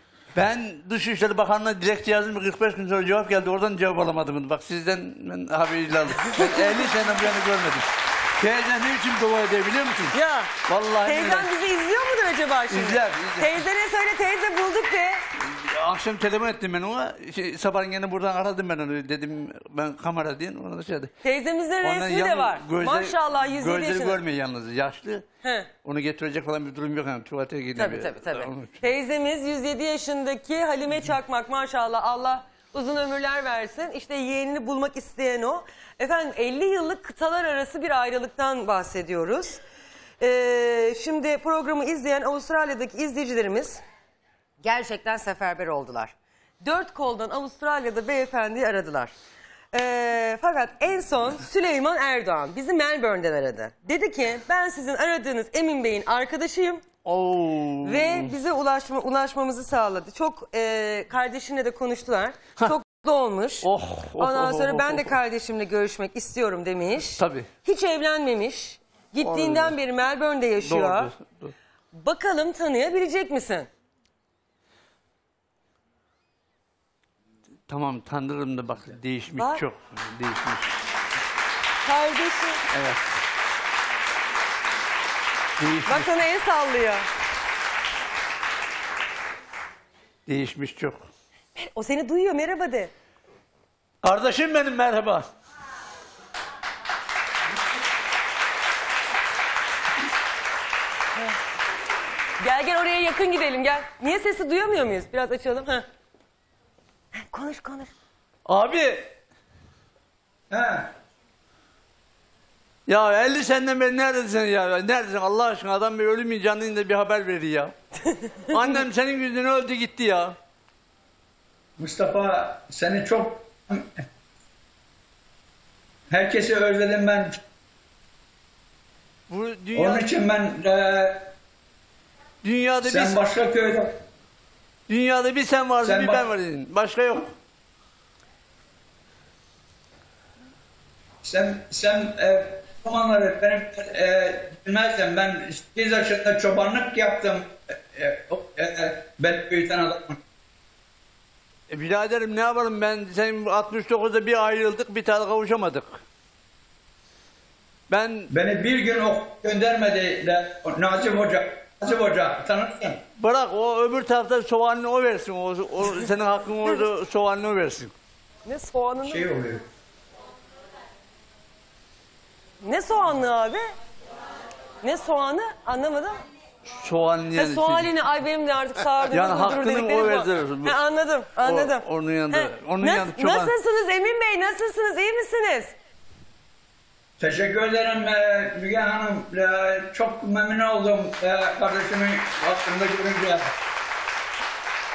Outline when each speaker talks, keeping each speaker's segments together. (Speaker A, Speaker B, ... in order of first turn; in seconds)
Speaker A: 0.3-10.1, 10.7-11.5, 12.7-13.6, 15.4-21.1, 21.8-25.2, 25.8-28.8, 57.0-58.4, 63.6-65.1, 67.2-67.5, 69.2-69.8, 70.6-71.5, 77.7-80.7, 82.7-83.0, 85.6-86.1, 90.2-91.0, 94.0-95.2, 108.5-109.1, 112.9-117.7, 118.5-120.3, 129.3-130.1, 132.4-133.3, 134.9-137.3, 151.7-156.0, 157.9-158.3, 163.2-167.9, 176.7-177.9, 179.0-180.8, 181.4-183.5
Speaker B: 6.3-6.7, 10.1-10.5, 11.0-15.2, 21.2-24.2, 25.4-25.7, 27.8-39.6, 40.2-43.8, 44.6-49.1, 49.7-56.8, 57.8-63.7, 64.2-71.1, 71.9-73.7, 81.8-82.6, 85.8-87.0, 91.6-92.9, 102.4-105.8, 107.1-107.9, 168.4-169.3, 172.6-173.7, 174.8-176.2, 177.3-185.7
Speaker C: 110.5-110.9, 121.8-124.0, 126.1-127.4, 129.7-131.3, 132.8-134.0, 135.8-136.3, 141.2-150.2, 158.3-163.0, 169.0-169.6, 187.2-193.5